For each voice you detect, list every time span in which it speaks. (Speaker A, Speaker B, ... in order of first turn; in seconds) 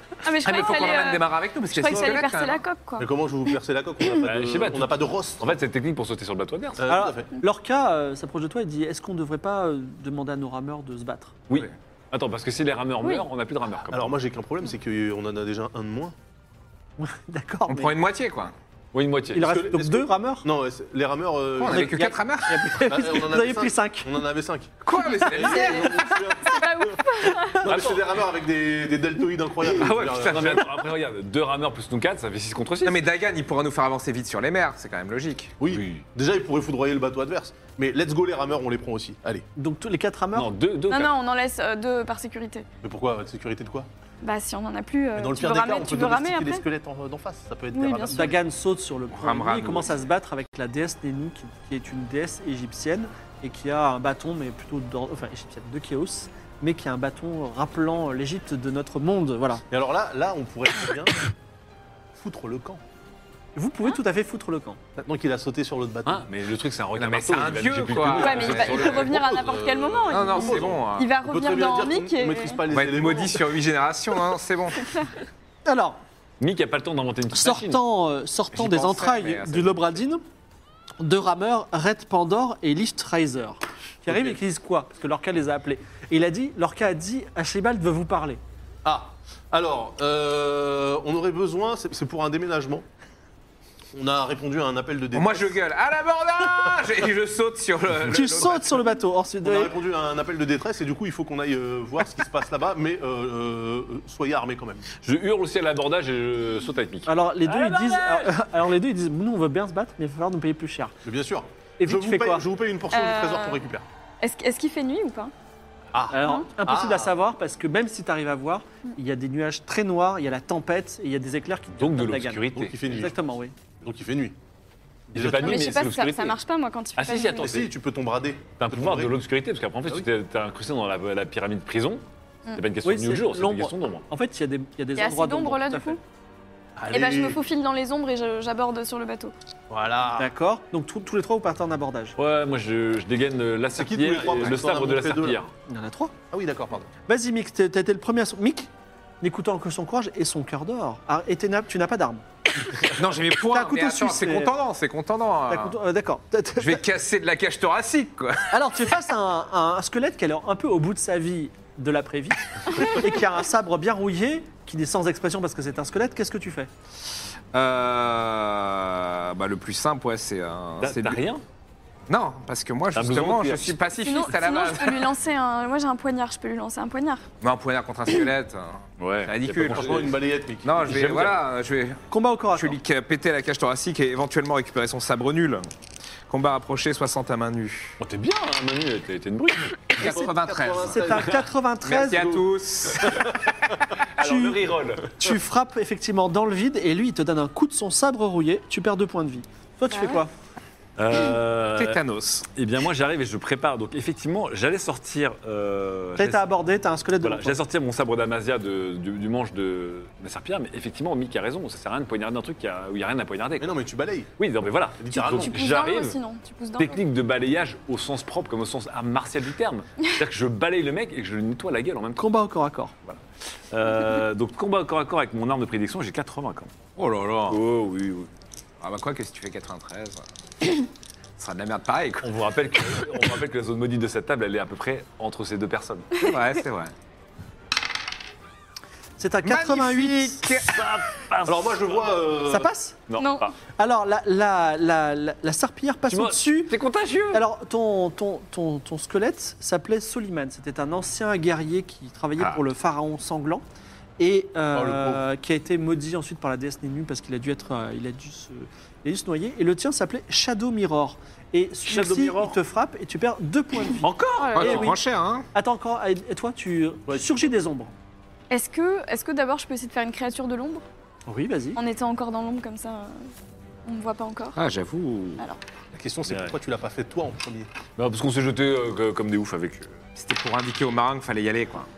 Speaker A: 0.2-3.5, 25.0-27.7, 40.9-42.7, 44.2-46.6, 47.7-48.4, 68.2-72.6, 112.9-113.6, 114.2-115.3, 116.2-116.5, 125.4-127.6, 134.9-136.0, 136.9-139.3, 174.0-177.2, 199.9-200.2, 215.1-217.0, 243.2-243.5, 264.4-264.9, 268.5-270.8, 271.7-273.3, 273.8-274.6
Speaker B: 0.3-2.6, 17.7-18.5, 21.6-22.8, 24.8-26.6, 29.6-30.7, 32.8-35.5, 49.1-50.0, 67.0-69.1, 70.1-71.2, 72.7-74.9, 78.5-80.0, 95.1-98.9, 152.9-155.8, 156.6-158.6, 167.5-171.2, 172.1-175.1, 177.4-185.7, 186.3-187.9, 189.9-191.1, 191.8-193.5, 201.7-202.5, 227.0-227.6, 228.8-230.2, 231.4-232.3, 236.2-236.9, 239.4-240.8, 264.5-265.5, 274.6-275.4, 280.1-281.9
Speaker C: 1.9-2.2, 3.0-5.6, 6.8-7.3, 13.9-16.1, 19.4-22.2, 22.8-26.6, 27.6-30.7, 35.6-39.5, 42.8-43.9, 45.1-48.3, 59.7-61.3, 62.1-62.8, 65.0-66.2, 68.0-73.6, 84.1-84.3, 88.8-92.8, 93.9-95.6, 99.4-104.8, 111.0-113.8, 115.9-117.1, 122.5-123.2, 123.8-124.4, 125.1-125.9, 127.3-129.2, 136.8-137.4, 139.7-140.3, 143.8-145.4, 146.3-146.9, 179.6-180.8, 190.0-191.4, 192.0-192.5, 213.6-214.3, 215.0-215.6, 241.4-242.7, 254.7-255.2, 261.9-262.5, 267.1-267.5, 275.9-277.7
Speaker D: 4.2-6.9, 11.5-14.1, 18.9-19.6, 27.6-28.1, 30.0-33.1, 35.6-36.0, 40.3-41.1, 66.0-69.0, 76.4-77.8, 105.0-108.3, 121.8-122.8, 125.1-126.4, 126.9-127.7, 128.6-132.0, 132.5-134.0, 142.2-145.5, 170.8-171.4, 172.9-173.8, 179.0-180.1, 180.8-181.4, 188.0-190.1, 194.2-195.3, 201.0-202.0, 202.5-206.5, 207.2-213.8, 214.4-216.2, 216.8-222.3, 223.0-226.8, 227.5-228.3, 232.2-236.1, 240.5-242.2, 243.1-243.5, 246.1-247.4, 264.0-264.9, 276.3-276.5, 278.0-279.9
Speaker E: 6.9-11.3, 17.0-17.9, 19.3-20.5, 21.6-24.2, 39.5-40.5, 48.1-59.6, 63.5-64.8, 75.7-76.0, 77.3-80.2, 81.0-88.4, 98.1-99.7, 107.1-111.0, 111.8-112.4, 116.1-123.5, 132.8-136.0, 140.2-142.2, 145.7-146.1, 147.1-148.7, 149.2-152.8, 153.4-154.6, 155.5-156.8, 158.5-166.7, 182.1-182.8, 190.8-192.3, 194.2-200.3, 206.2-207.6, 222.2-222.9, 239.2-240.4, 242.5-243.0, 243.8-246.8, 247.3-253.6, 254.2-264.1, 264.6-265.0, 265.5-267.9, 271.3-271.8